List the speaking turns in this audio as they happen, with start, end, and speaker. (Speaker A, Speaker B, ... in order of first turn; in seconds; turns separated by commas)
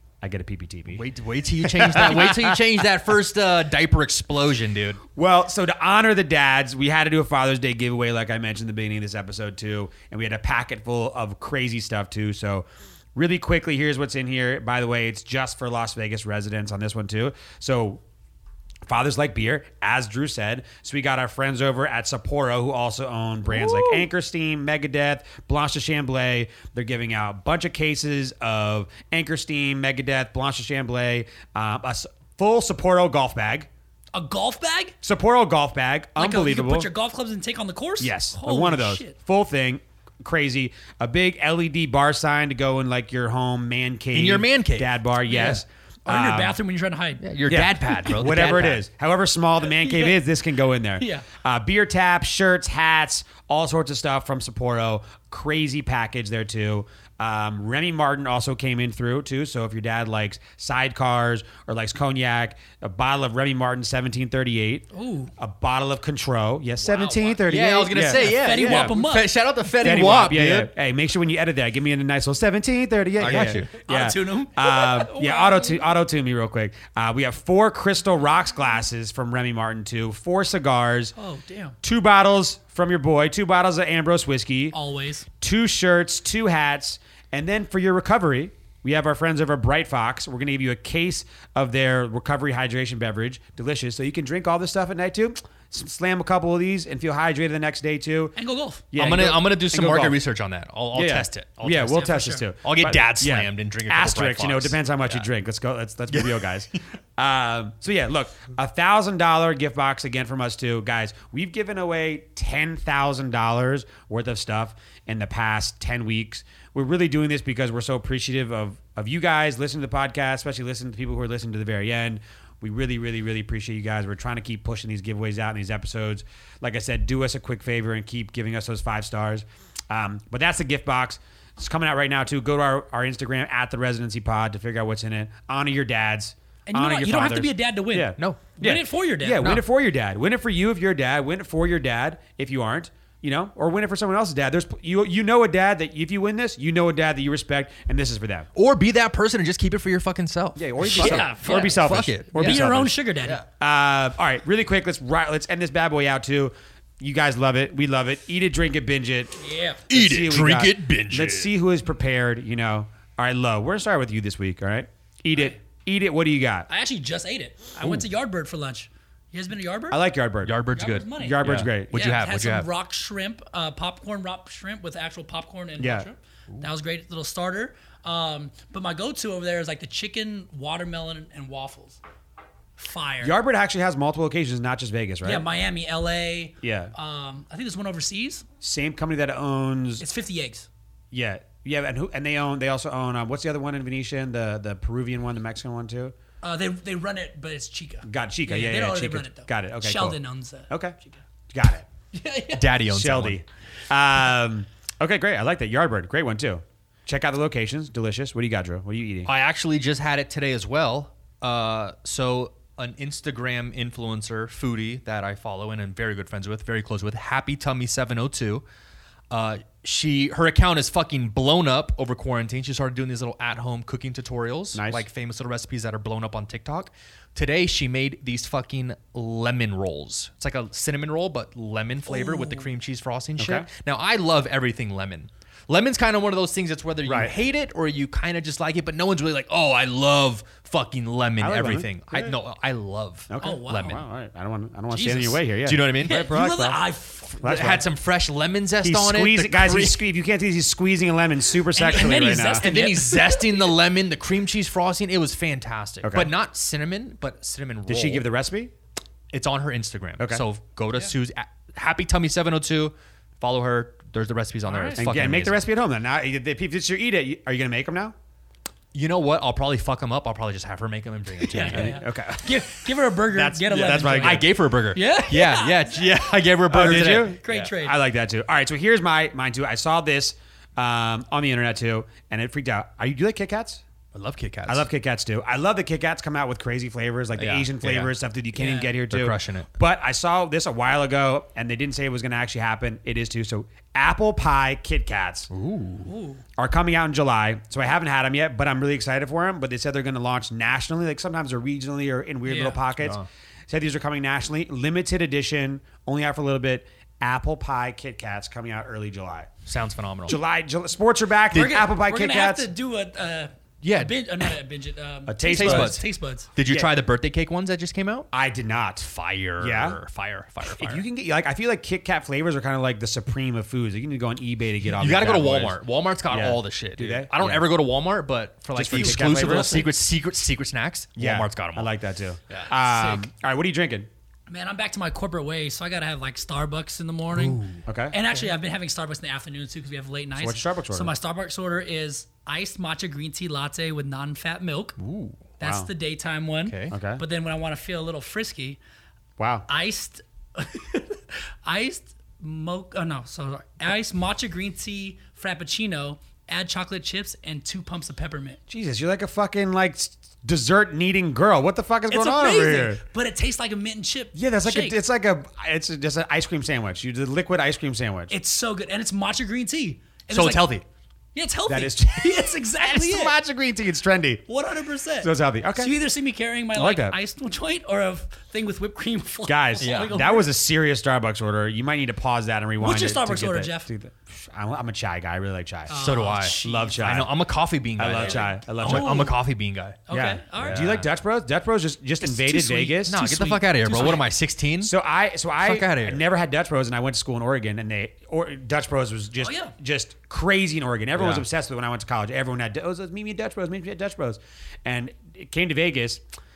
Speaker A: 0.2-1.0, Speaker B: 0.9-5.0, Speaker A: 1.6-2.6, Speaker A: 5.1-18.0, Speaker A: 18.9-33.7, Speaker C: 23.5-24.0, Speaker C: 34.1-35.0, Speaker A: 35.0-36.9, Speaker C: 36.2-39.2, Speaker A: 38.0-46.6, Speaker B: 44.1-44.9, Speaker C: 45.2-47.2, Speaker B: 47.2-48.8, Speaker A: 47.4-64.9, Speaker C: 49.7-50.2, Speaker C: 51.0-51.2, Speaker C: 64.9-65.3, Speaker A: 65.4-69.0, Speaker B: 66.9-70.7, Speaker C: 68.1-69.3, Speaker A: 69.7-81.1, Speaker B: 73.2-73.7, Speaker C: 73.7-75.9, Speaker C: 81.2-81.8, Speaker A: 81.8-84.8, Speaker C: 84.7-85.2, Speaker A: 85.4-98.3, Speaker C: 98.3-98.8, Speaker A: 98.9-100.2, Speaker B: 99.0-105.2, Speaker A: 100.9-148.5, Speaker C: 102.1-102.4, Speaker B: 106.1-106.5, Speaker C: 136.7-139.5, Speaker B: 148.5-153.4, Speaker A: 150.6-152.9, Speaker C: 150.8-153.4, Speaker A: 153.6-159.3, Speaker C: 159.4-159.8, Speaker B: 159.9-161.5, Speaker A: 159.9-166.7, Speaker C: 166.7-170.0, Speaker A: 167.8-168.0, Speaker A: 169.9-170.6, Speaker B: 170.4-172.7, Speaker C: 170.7-182.0, Speaker A: 171.2-172.0, Speaker A: 175.8-176.1, Speaker C: 182.8-183.3, Speaker A: 183.2-185.4, Speaker C: 185.2-188.4, Speaker A: 186.6-186.9, Speaker A: 188.6-190.0, Speaker C: 190.0-190.7, Speaker A: 191.1-196.1, Speaker C: 196.4-201.2, Speaker A: 198.0-200.9, Speaker A: 201.5-201.9, Speaker C: 202.1-202.7, Speaker B: 202.5-203.4, Speaker A: 202.8-209.3, Speaker B: 209.2-218.6, Speaker B: 219.3-244.0, Speaker A: 224.7-225.0, Speaker C: 232.1-232.7, Speaker A: 233.4-233.7, Speaker A: 237.0-237.3, Speaker A: 241.4-242.3, Speaker A: 243.3-246.8, Speaker C: 243.4-244.0, Speaker C: 245.0-245.3, Speaker B: 245.0-246.2, Speaker C: 246.0-247.6, Speaker B: 247.3-250.0, Speaker A: 247.4-247.9, Speaker A: 248.8-252.7, Speaker C: 251.7-253.7, Speaker B: 252.6-258.3, Speaker A: 256.0-256.3, Speaker A: 257.9-258.7, Speaker B: 259.3-265.6, Speaker A: 260.2-260.4, Speaker C: 264.6-265.0, Speaker A: 264.9-268.1, Speaker B: 268.9-272.0, Speaker C: 271.5-276.0, Speaker A: 271.6-272.7, Speaker A: 273.2-274.5, Speaker B: 274.0-277.4, Speaker A: 276.7-283.8, Speaker C: 277.0-278.0, Speaker B: 284.1-284.9, Speaker A: 284.6-295.5, Speaker B: 287.4-288.1, Speaker C: 288.6-288.9, Speaker B: 289.1-289.7, Speaker B: 295.5-296.1, Speaker C: 296.0-296.4, Speaker A: 296.6-309.5, Speaker C: 302.4-302.8, Speaker B: 303.0-303.2, Speaker B: 309.6-310.4, Speaker A: 310.3-312.7, Speaker C: 311.5-316.5, Speaker B: 313.8-314.1, Speaker A: 315.3-316.0, Speaker B: 315.5-316.0, Speaker B: 316.5-318.3, Speaker A: 316.6-316.9, Speaker A: 318.3-319.1, Speaker B: 319.0-321.1, Speaker A: 319.6-320.0, Speaker A: 320.8-327.7, Speaker B: 324.9-331.9, Speaker A: 328.7-329.9, Speaker C: 328.9-329.9, Speaker A: 331.2-334.1, Speaker C: 332.8-333.2, Speaker C: 334.5-345.0, Speaker B: 337.3-337.8, Speaker A: 337.9-338.2, Speaker A: 340.4-341.1, Speaker B: 345.0-345.4, Speaker C: 345.6-348.8, Speaker A: 345.6-345.9, Speaker B: 346.6-346.9, Speaker A: 346.9-347.2, Speaker A: 349.4-349.6, Speaker C: 349.7-358.6, Speaker A: 358.7-363.0, Speaker C: 362.1-365.0, Speaker A: 364.3-368.3, Speaker C: 368.3-370.7, Speaker B: 370.3-370.8, Speaker C: 371.3-373.4, Speaker A: 371.7-374.4, Speaker C: 374.5-380.5, Speaker A: 375.2-375.9, Speaker A: 376.7-377.1, Speaker A: 379.4-387.3, Speaker B: 379.8-380.2, Speaker C: 382.8-383.9, Speaker C: 385.9-387.1, Speaker B: 385.9-390.0, Speaker A: 388.0-389.3, Speaker C: 388.2-389.4, Speaker C: 390.1-390.9, Speaker A: 390.1-393.2, Speaker B: 390.6-391.0, Speaker C: 392.2-394.2, Speaker B: 393.1-394.9, Speaker A: 394.8-406.2, Speaker B: 395.6-396.2, Speaker C: 399.4-399.7, Speaker B: 401.2-401.4